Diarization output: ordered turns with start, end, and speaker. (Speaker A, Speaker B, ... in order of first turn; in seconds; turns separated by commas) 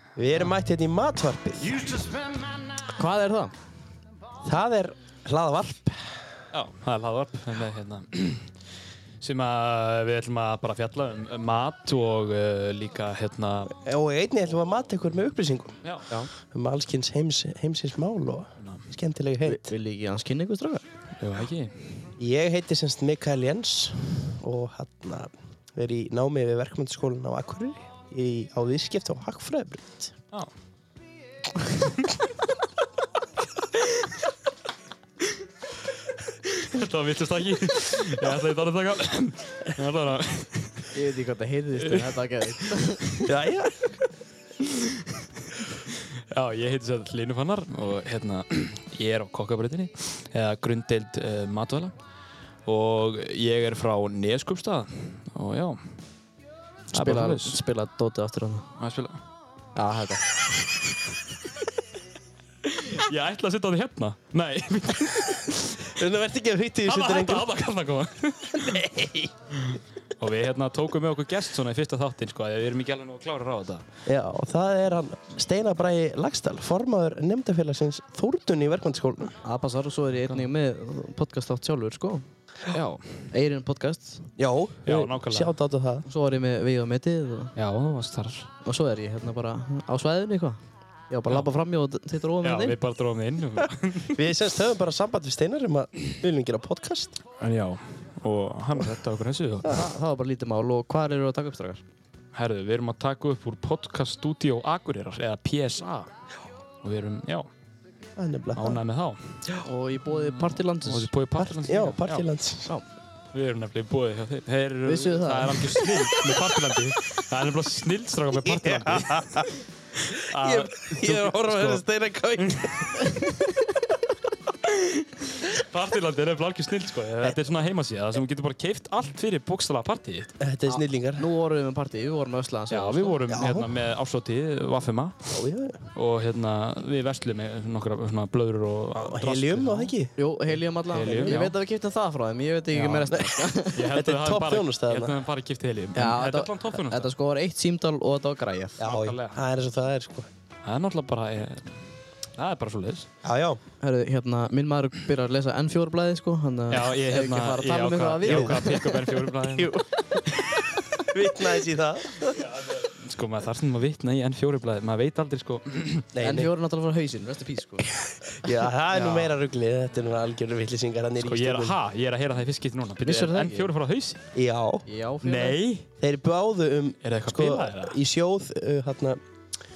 Speaker A: 0.2-1.9, Speaker B: 2.8-3.5, Speaker A: 4.4-6.4, Speaker C: 6.5-8.5, Speaker C: 9.2-13.8, Speaker A: 13.8-15.8, Speaker C: 15.8-16.1, Speaker A: 16.5-19.7, Speaker C: 18.6-18.9, Speaker B: 19.4-20.8, Speaker C: 21.2-22.1, Speaker A: 22.2-30.1, Speaker C: 36.5-40.9, Speaker B: 40.9-43.1, Speaker C: 41.8-42.2, Speaker A: 43.2-43.8, Speaker C: 44.6-51.9, Speaker C: 52.7-56.0, Speaker C: 56.9-57.6, Speaker B: 56.9-58.7, Speaker C: 58.8-59.2, Speaker B: 59.8-60.2, Speaker C: 62.7-65.9, Speaker A: 65.9-67.5, Speaker C: 66.8-68.8, Speaker A: 68.5-69.3, Speaker C: 69.6-73.8, Speaker A: 74.1-79.4, Speaker B: 79.4-82.3, Speaker C: 82.7-83.3, Speaker B: 83.3-84.3, Speaker A: 84.4-86.0, Speaker C: 84.8-85.5, Speaker B: 86.1-87.5, Speaker C: 87.6-88.5, Speaker B: 88.7-92.8, Speaker C: 92.4-94.2, Speaker A: 94.2-97.2, Speaker C: 97.4-99.8, Speaker B: 99.7-101.8, Speaker C: 102.3-106.1, Speaker C: 106.8-107.5, Speaker A: 108.2-108.8, Speaker C: 108.5-109.5, Speaker B: 109.6-111.1, Speaker C: 110.1-112.3, Speaker A: 111.4-112.7, Speaker C: 113.3-121.8, Speaker B: 114.8-115.9, Speaker A: 118.5-119.5, Speaker A: 120.3-123.0, Speaker C: 122.4-123.0, Speaker C: 124.6-130.3, Speaker A: 130.4-131.2, Speaker B: 130.7-133.2, Speaker C: 132.7-135.4, Speaker A: 133.3-133.7, Speaker A: 135.3-135.8, Speaker C: 135.9-139.9, Speaker A: 138.9-140.1, Speaker B: 140.2-143.9, Speaker C: 140.9-141.6, Speaker A: 141.0-141.4, Speaker C: 142.7-143.1, Speaker C: 143.8-147.1, Speaker A: 143.9-145.2, Speaker B: 145.9-148.8, Speaker A: 148.8-150.3, Speaker C: 148.8-149.4, Speaker C: 150.7-151.9, Speaker C: 152.4-153.1, Speaker A: 153.2-153.6, Speaker B: 153.8-161.1, Speaker C: 156.7-159.7, Speaker A: 158.2-158.6, Speaker A: 161.1-162.4, Speaker C: 162.3-166.1, Speaker A: 166.1-166.5, Speaker B: 166.2-167.9, Speaker A: 168.2-171.8, Speaker C: 168.9-169.3, Speaker C: 171.2-174.2, Speaker B: 173.1-173.7, Speaker A: 174.3-174.8, Speaker B: 174.9-175.6, Speaker C: 175.2-175.9, Speaker A: 176.0-179.2, Speaker C: 177.0-178.0